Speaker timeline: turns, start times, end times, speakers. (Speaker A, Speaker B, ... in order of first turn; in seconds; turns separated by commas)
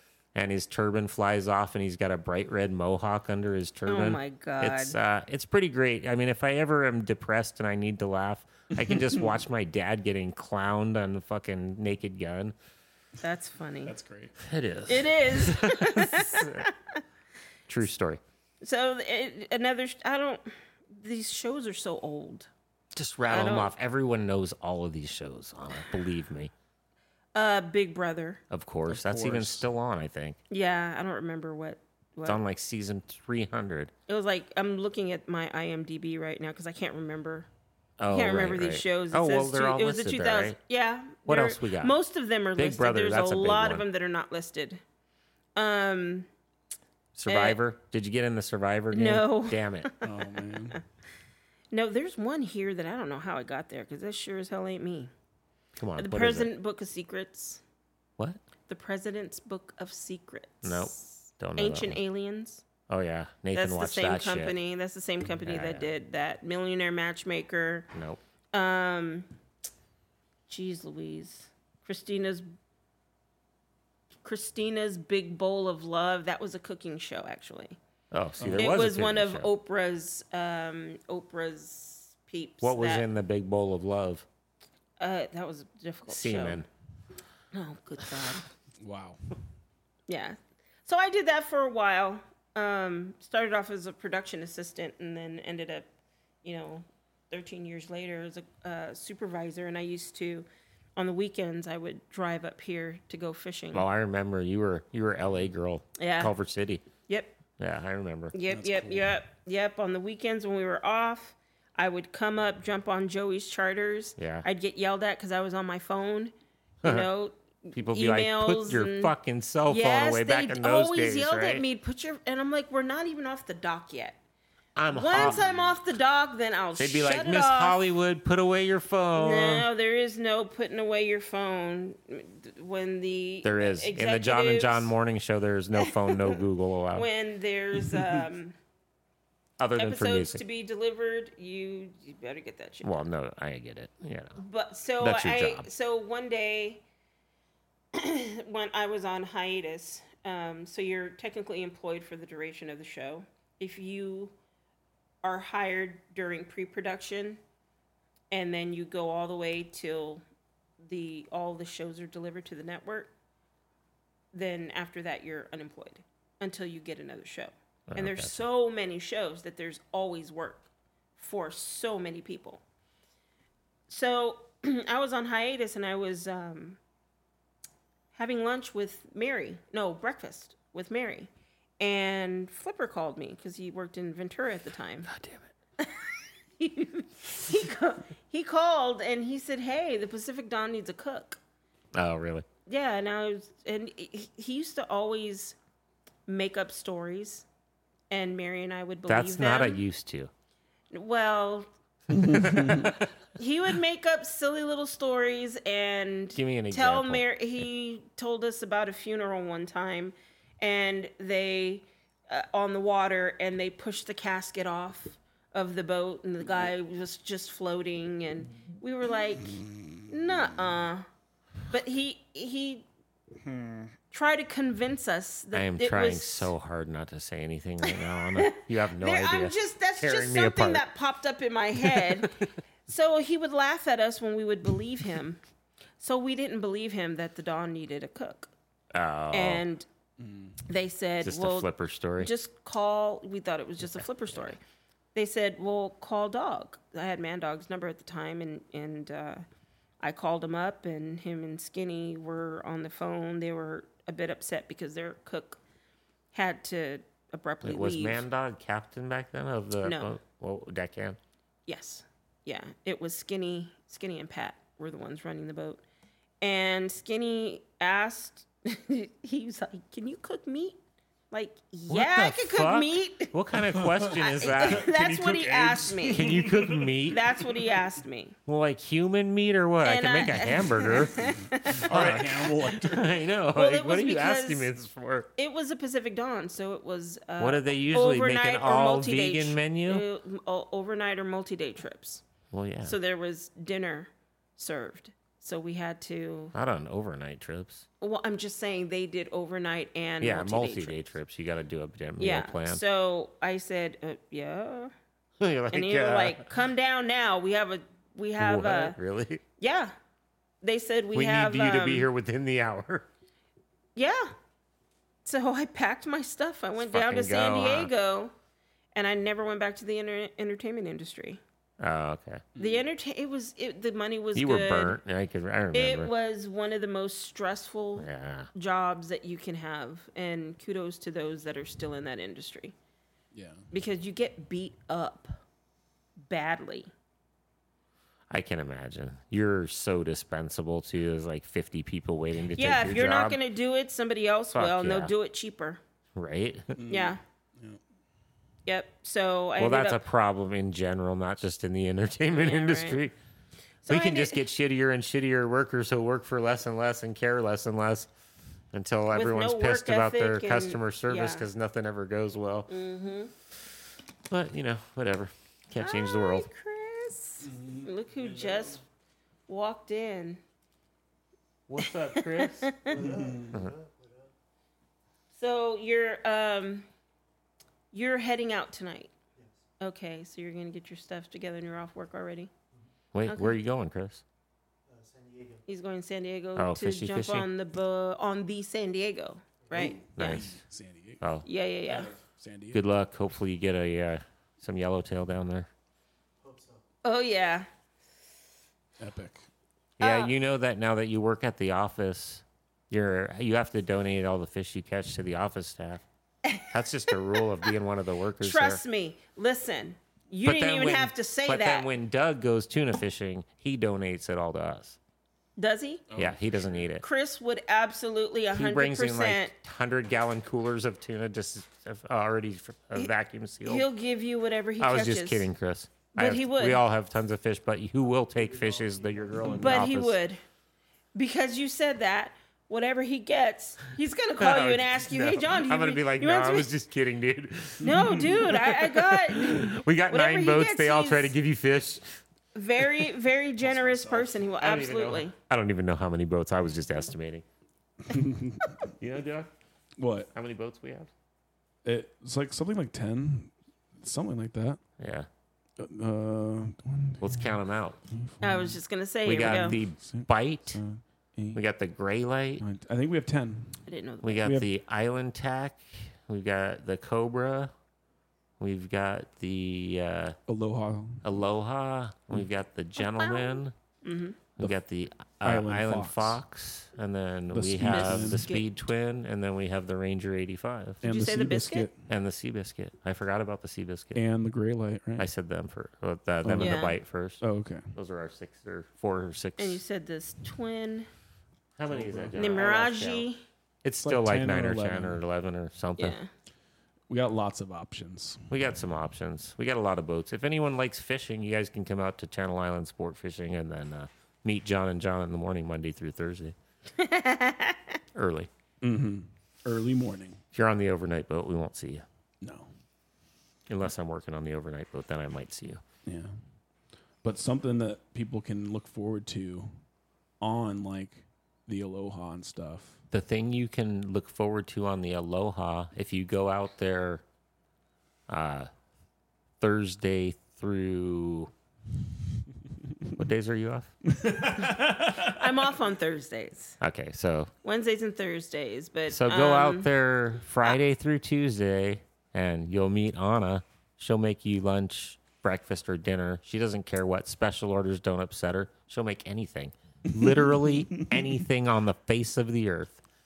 Speaker A: 0.3-12.6, Speaker B: 3.9-5.0, Speaker B: 13.2-13.9, Speaker C: 13.8-14.3, Speaker A: 14.4-16.7, Speaker B: 14.9-17.0, Speaker A: 17.7-18.2, Speaker B: 18.6-22.5, Speaker A: 22.9-26.5, Speaker B: 23.3-23.7, Speaker B: 27.4-28.4, Speaker A: 28.5-30.4, Speaker C: 28.9-29.6, Speaker B: 30.5-32.4, Speaker A: 32.3-33.9, Speaker B: 34.1-37.5, Speaker A: 38.0-40.6, Speaker B: 38.1-44.8, Speaker A: 41.3-42.0, Speaker A: 42.6-43.9, Speaker B: 45.6-46.3, Speaker A: 47.1-49.9, Speaker B: 47.3-47.6, Speaker B: 48.9-50.1, Speaker C: 50.0-50.8, Speaker B: 51.7-55.1, Speaker A: 55.8-56.5, Speaker B: 56.0-57.6, Speaker B: 58.7-62.7, Speaker A: 60.6-62.0, Speaker A: 62.9-64.5, Speaker B: 63.5-67.9, Speaker A: 65.4-65.9, Speaker A: 67.9-68.2, Speaker B: 68.5-69.3, Speaker B: 70.5-72.5, Speaker B: 74.2-77.8, Speaker A: 78.1-79.5, Speaker C: 78.4-78.7, Speaker B: 78.6-83.1, Speaker A: 82.6-84.3, Speaker B: 85.0-86.6, Speaker A: 86.1-86.7, Speaker B: 87.5-88.5, Speaker C: 88.8-89.2, Speaker B: 90.1-95.9, Speaker B: 96.4-103.8, Speaker A: 103.7-106.8, Speaker B: 106.0-106.3, Speaker B: 107.1-107.3, Speaker A: 107.6-108.4, Speaker B: 108.3-119.1, Speaker C: 108.5-109.1, Speaker A: 114.2-114.5, Speaker A: 116.8-117.1, Speaker A: 117.7-121.6, Speaker B: 119.7-124.2, Speaker A: 124.8-125.4, Speaker B: 124.9-127.8, Speaker C: 125.1-125.6, Speaker A: 126.8-129.7, Speaker B: 129.2-134.9, Speaker A: 133.4-137.1, Speaker B: 135.8-136.4, Speaker B: 136.9-138.6, Speaker A: 139.6-140.4, Speaker B: 139.8-143.0, Speaker A: 142.8-144.4, Speaker B: 144.4-146.8, Speaker A: 145.0-145.7, Speaker B: 147.9-154.3, Speaker B: 155.2-157.4, Speaker B: 158.3-160.2, Speaker B: 160.8-163.1, Speaker B: 164.3-172.6, Speaker A: 167.9-168.4, Speaker B: 173.9-176.8, Speaker B: 178.1-185.1, Speaker A: 185.1-185.5, Speaker B: 185.8-191.4, Speaker A: 191.9-192.5, Speaker B: 192.7-195.6, Speaker B: 196.3-197.5, Speaker B: 198.1-199.8, Speaker A: 199.1-200.3, Speaker B: 200.9-201.7, Speaker C: 202.2-202.8, Speaker A: 202.4-202.9, Speaker B: 202.5-202.7, Speaker B: 203.3-221.1, Speaker A: 206.3-207.2, Speaker B: 221.7-222.8, Speaker B: 224.1-226.5, Speaker A: 225.5-230.8, Speaker B: 227.8-235.4, Speaker A: 231.8-232.5, Speaker B: 236.0-238.5, Speaker A: 238.9-239.6, Speaker B: 239.3-239.9, Speaker C: 240.2-240.6, Speaker B: 240.7-244.6, Speaker A: 241.2-242.3, Speaker A: 244.0-244.6, Speaker B: 245.2-249.4, Speaker B: 250.0-255.6, Speaker B: 256.3-258.2, Speaker A: 257.6-261.2, Speaker B: 259.8-260.1, Speaker B: 261.7-265.8, Speaker B: 266.4-270.8, Speaker B: 271.3-273.3, Speaker A: 271.9-277.3, Speaker C: 273.8-275.0, Speaker B: 274.0-276.3, Speaker C: 275.7-277.0, Speaker B: 277.1-278.4, Speaker A: 278.5-285.3, Speaker B: 279.8-281.9, Speaker C: 281.7-283.2, Speaker B: 283.5-284.7, Speaker B: 285.4-292.2, Speaker A: 287.4-290.1, Speaker A: 292.5-293.0, Speaker B: 292.8-296.5, Speaker A: 296.5-297.9, Speaker B: 298.0-301.1, Speaker A: 300.2-302.8, Speaker B: 302.2-304.9, Speaker A: 305.4-306.4, Speaker B: 305.7-309.0, Speaker A: 308.4-309.4, Speaker B: 309.6-309.9, Speaker B: 310.6-312.1, Speaker A: 311.1-313.1, Speaker B: 314.0-314.3, Speaker B: 315.2-318.3, Speaker A: 316.8-317.9, Speaker B: 318.9-321.4, Speaker A: 321.8-322.4, Speaker C: 322.6-322.8, Speaker B: 322.6-325.0, Speaker A: 324.4-326.1, Speaker B: 325.7-332.8, Speaker A: 328.0-328.5, Speaker C: 333.3-333.7, Speaker B: 333.7-335.4, Speaker B: 336.2-336.9, Speaker A: 338.3-343.4, Speaker B: 342.6-345.8, Speaker A: 344.5-345.1, Speaker A: 346.1-346.8, Speaker C: 346.8-347.8, Speaker B: 346.9-347.2, Speaker B: 348.7-350.0, Speaker A: 349.6-353.1, Speaker B: 352.3-353.0, Speaker B: 353.8-354.4, Speaker A: 353.9-358.1, Speaker A: 358.7-362.7, Speaker B: 359.1-361.5, Speaker B: 362.7-363.3, Speaker A: 364.3-366.5, Speaker B: 365.8-368.8, Speaker C: 367.4-368.8, Speaker B: 369.5-370.4, Speaker A: 371.7-373.0, Speaker B: 371.8-373.3, Speaker C: 372.9-373.6, Speaker B: 375.4-376.9, Speaker B: 377.9-379.1, Speaker B: 379.8-382.5, Speaker A: 383.1-384.2, Speaker B: 383.3-383.6, Speaker B: 385.7-390.4, Speaker A: 386.6-387.5, Speaker C: 389.7-391.2, Speaker A: 390.2-390.6, Speaker A: 391.2-391.5, Speaker B: 391.4-392.1, Speaker C: 391.9-392.8, Speaker A: 392.7-395.7, Speaker B: 397.0-397.7, Speaker C: 399.0-399.4, Speaker A: 400.0-406.0, Speaker B: 400.0-400.3, Speaker B: 406.4-407.4, Speaker A: 406.6-408.8, Speaker B: 408.4-411.9, Speaker A: 410.4-415.0, Speaker B: 415.6-416.1, Speaker C: 416.1-416.8, Speaker A: 416.1-417.0, Speaker B: 417.0-419.5, Speaker A: 418.5-423.9, Speaker B: 423.6-425.5, Speaker A: 424.8-430.2, Speaker B: 426.1-426.8, Speaker C: 429.4-429.8, Speaker B: 429.6-430.4, Speaker B: 431.1-436.7, Speaker A: 434.4-442.2, Speaker B: 437.8-441.4, Speaker B: 442.6-445.4, Speaker C: 443.6-444.5, Speaker A: 444.6-447.4, Speaker C: 448.1-448.8, Speaker A: 449.0-449.5, Speaker C: 450.0-450.3, Speaker A: 450.3-451.1, Speaker C: 451.9-454.8, Speaker A: 455.0-455.3, Speaker C: 455.8-457.6, Speaker A: 457.2-458.0, Speaker C: 458.1-458.8, Speaker B: 458.4-459.8, Speaker A: 459.3-460.8, Speaker C: 459.4-461.6, Speaker A: 461.5-462.6, Speaker C: 462.6-463.9, Speaker B: 463.9-464.5, Speaker A: 464.2-467.7, Speaker C: 464.4-464.7, Speaker A: 468.6-470.4, Speaker C: 470.5-471.3, Speaker A: 471.2-473.7, Speaker B: 473.0-474.4, Speaker A: 474.6-481.0, Speaker C: 475.4-476.4, Speaker C: 477.5-478.5, Speaker B: 477.8-478.7, Speaker C: 481.0-482.1, Speaker B: 481.0-481.9, Speaker A: 482.1-484.2, Speaker C: 484.1-485.3, Speaker A: 485.2-487.4, Speaker C: 486.4-486.9, Speaker B: 486.6-487.0, Speaker C: 487.4-487.9, Speaker A: 487.9-489.8, Speaker B: 489.6-491.1, Speaker A: 491.8-493.3, Speaker C: 491.9-492.4, Speaker B: 492.4-493.4, Speaker A: 493.8-496.2, Speaker C: 494.0-495.2, Speaker B: 496.0-496.3, Speaker C: 497.1-498.5, Speaker A: 498.5-506.6, Speaker B: 507.0-508.0, Speaker A: 508.1-508.5, Speaker C: 508.8-510.4, Speaker A: 510.5-512.0, Speaker C: 512.4-512.7, Speaker A: 513.7-515.8, Speaker C: 516.1-516.3, Speaker C: 517.2-519.7, Speaker C: 520.4-523.0, Speaker A: 523.1-527.2, Speaker A: 528.3-528.7, Speaker A: 529.6-531.5, Speaker A: 533.2-533.9, Speaker C: 534.1-535.5, Speaker B: 535.1-536.8, Speaker A: 536.8-537.5, Speaker B: 537.6-539.9, Speaker A: 539.1-553.0, Speaker C: 550.1-551.2